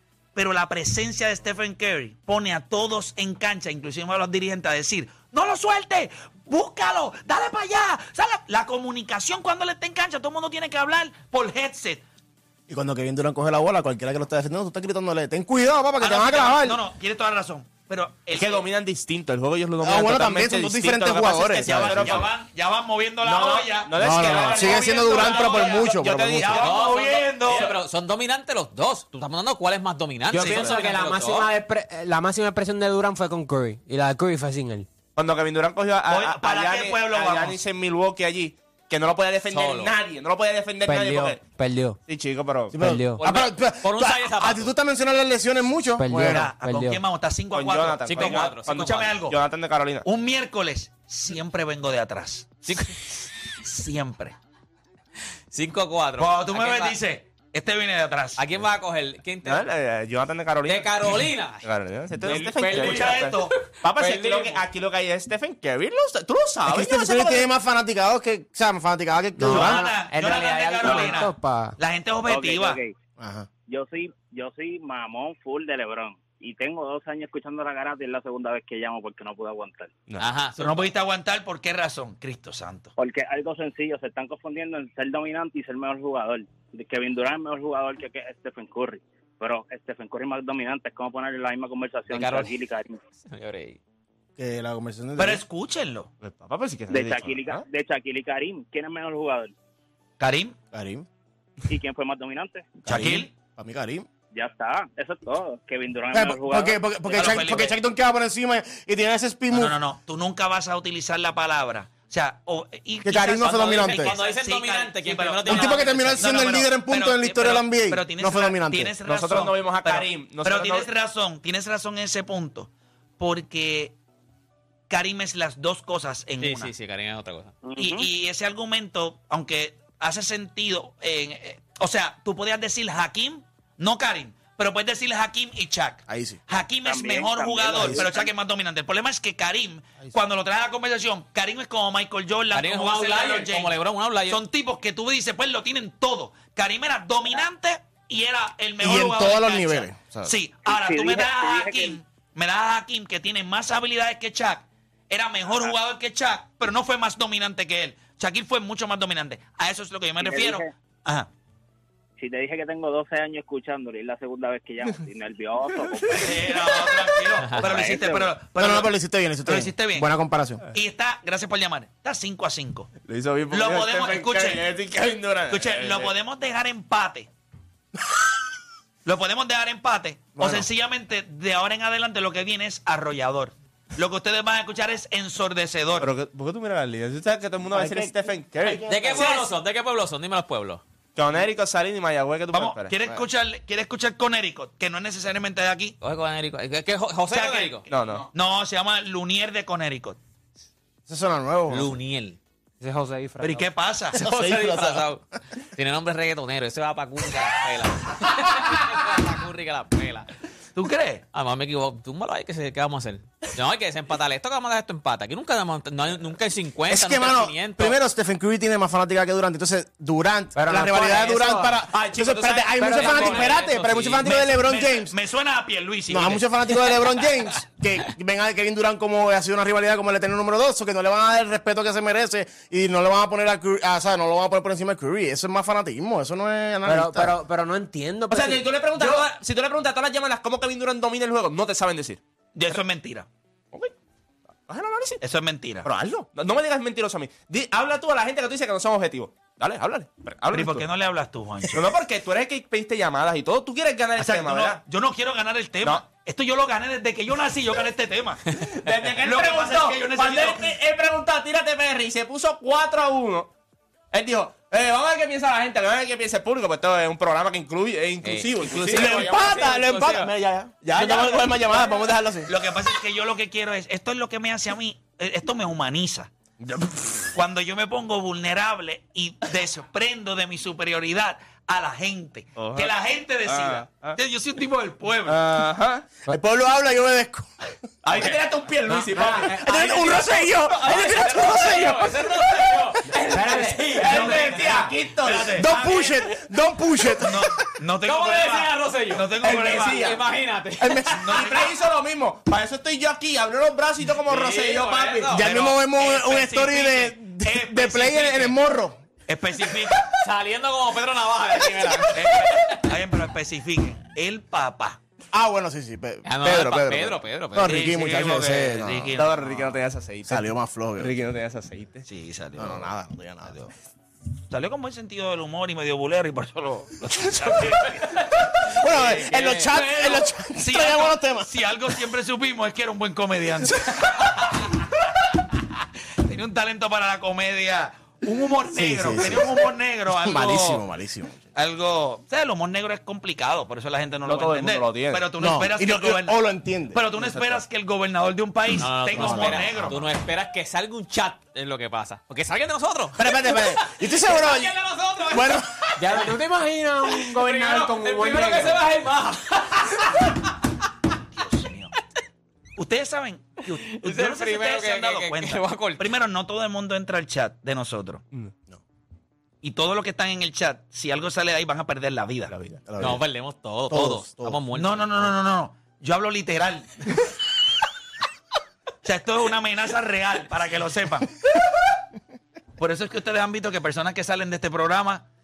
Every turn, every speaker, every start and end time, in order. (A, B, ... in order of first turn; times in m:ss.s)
0:00.4-0:12.0 A
0:12.7-0:16.8 B
0:16.0-0:18.7 A
0:18.3-0:22.3 C
0:19.8-0:22.3 B
0:21.7-0:27.8 A
0:23.2-0:27.7 C
0:24.0-0:26.6 B
0:26.5-0:31.5 D
0:30.3-0:34.9 E
0:35.2-0:41.4 C
0:36.1-0:37.6 A
0:39.5-0:39.9 D
0:40.8-0:42.0 E
0:42.1-0:42.8 C
0:42.7-0:43.2 E
0:42.7-0:46.5 B
0:43.2-0:44.7 D
0:46.0-0:47.0 E
0:46.1-0:49.4 A
0:47.5-0:50.0 C
0:48.0-0:49.1 D
0:50.0-0:52.9 A
0:52.6-0:53.3 D
0:53.5-0:54.4 A
0:55.5-0:57.0 D
0:56.2-0:58.4 A
0:58.4-0:59.7 D
0:59.4-1:07.5 C
1:00.6-1:01.6 D
1:02.2-1:04.6 D
1:02.7-1:03.6 A
1:06.7-1:09.9 B
1:09.4-1:11.8 E
1:09.5-1:12.8 A
1:12.3-1:12.9 F
1:13.2-1:13.5 B
1:13.7-1:19.9 F
1:20.2-1:20.9 D
1:20.6-1:22.9 A
1:23.0-1:33.0 F
1:32.1-1:32.5 D
1:33.2-1:33.8 D
1:34.4-1:35.4 B
1:35.2-1:36.1 A
1:36.2-1:37.6 C
1:36.9-1:39.5 F
1:40.2-1:40.6 A
1:40.7-1:41.1 B
1:41.7-1:42.8 F
1:42.9-1:43.3 A
1:42.9-1:44.1 B
1:44.3-1:47.6 F
1:46.1-1:49.8 B
1:47.1-1:47.8 A
1:49.5-2:04.0 A
1:53.0-1:54.2 B
1:53.5-1:56.4 D
1:55.5-1:59.0 B
1:59.0-2:00.9 C
2:04.9-2:06.7 A
2:06.4-2:07.6 D
2:07.6-2:08.1 F
2:07.8-2:23.7 A
2:16.1-2:16.4 B
2:16.8-2:18.3 F
2:22.5-2:24.4 D
2:24.3-2:41.3 A
2:28.8-2:30.3 B
2:30.7-2:32.0 F
2:40.2-2:40.6 F
2:42.2-2:46.2 F
2:46.1-2:48.9 A
2:47.4-2:47.7 D
2:47.6-2:48.3 F
2:48.5-2:50.6 B
2:49.4-2:50.1 A
2:50.7-2:52.9 A
2:53.0-2:56.1 C
2:53.5-2:54.7 A
2:55.5-2:57.3 A
2:59.0-3:06.1 A
3:00.4-3:00.7 B
3:06.0-3:08.9 C
3:07.7-3:09.4 B
3:08.9-3:10.8 D
3:11.2-3:12.9 C
3:12.5-3:16.0 A
3:16.0-3:17.9 D
3:17.3-3:20.2 A
3:17.9-3:18.3 C
3:21.1-3:22.0 B
3:21.7-3:22.4 D
3:22.8-3:23.7 E
3:23.4-3:24.2 A
3:24.1-3:25.1 B
3:24.1-3:30.3 D
3:30.8-3:31.2 A
3:31.3-3:38.0 D
3:36.9-3:45.1 B
3:40.6-3:41.8 E
3:41.9-3:43.5 C
3:42.8-3:43.5 E
3:42.8-3:44.3 D
3:44.2-3:46.5 A
3:46.1-3:57.3 B
3:56.8-3:59.3 E
3:58.3-4:02.2 C
4:02.6-4:03.3 A
4:04.7-4:05.2 C
4:05.2-4:05.9 A
4:05.8-4:10.9 C
4:10.5-4:11.9 A
4:11.7-4:14.8 C
4:14.2-4:18.4 A
4:18.6-4:23.5 C
4:19.2-4:20.7 A
4:24.1-4:29.6 C
4:28.2-4:30.3 D
4:28.8-4:32.5 B
4:30.8-4:32.2 C
4:32.5-4:36.3 A
4:36.6-4:37.0 C
4:37.4-4:45.4 A
4:42.6-4:42.9 C
4:43.4-4:44.2 C
4:45.3-4:46.1 C
4:46.3-4:47.5 B
4:48.0-4:50.0 C
4:49.1-4:52.9 B
4:49.2-4:49.6 E
4:49.6-4:54.9 D
4:53.3-4:54.9 E
4:54.0-4:55.7 C
4:54.1-4:56.4 A
4:55.5-4:57.7 B
4:57.2-5:00.1 A
4:58.0-5:01.4 D
4:59.4-5:00.2 C
5:00.8-5:01.2 B
5:01.1-5:01.7 A
5:01.3-5:05.4 C
5:04.2-5:05.4 D
5:05.3-5:09.0 B
5:05.4-5:08.6 A
5:09.3-5:10.1 A
5:10.0-5:12.8 D
5:12.1-5:15.0 A
5:15.3-5:19.2 B
5:16.2-5:18.0 D
5:17.6-5:19.4 A
5:19.2-5:22.0 C
5:20.3-5:21.1 B
5:22.1-5:22.9 A
5:22.6-5:23.6 B
5:23.5-5:23.7 A
5:24.5-5:28.2 A
5:28.7-5:31.5 B
5:28.9-5:29.8 D
5:28.9-5:29.2 A
5:29.8-5:34.6 A
5:36.2-5:40.8 A
5:38.7-5:41.5 B
5:41.6-5:50.1 A
5:44.3-5:45.3 C
5:45.4-5:47.6 B
5:48.8-5:56.4 D
5:49.2-5:50.0 B
5:53.2-5:55.9 B
5:56.0-5:58.8 E
5:57.1-6:00.6 D
6:01.3-6:01.9 A
6:02.8-6:08.2 A
6:03.6-6:06.0 D
6:09.6-6:12.5 A
6:12.5-6:12.9 C
6:12.9-6:13.2 B
6:13.0-6:15.4 D
6:13.9-6:14.6 B
6:14.7-6:17.2 A
6:19.0-6:21.4 A
6:22.8-6:25.3 A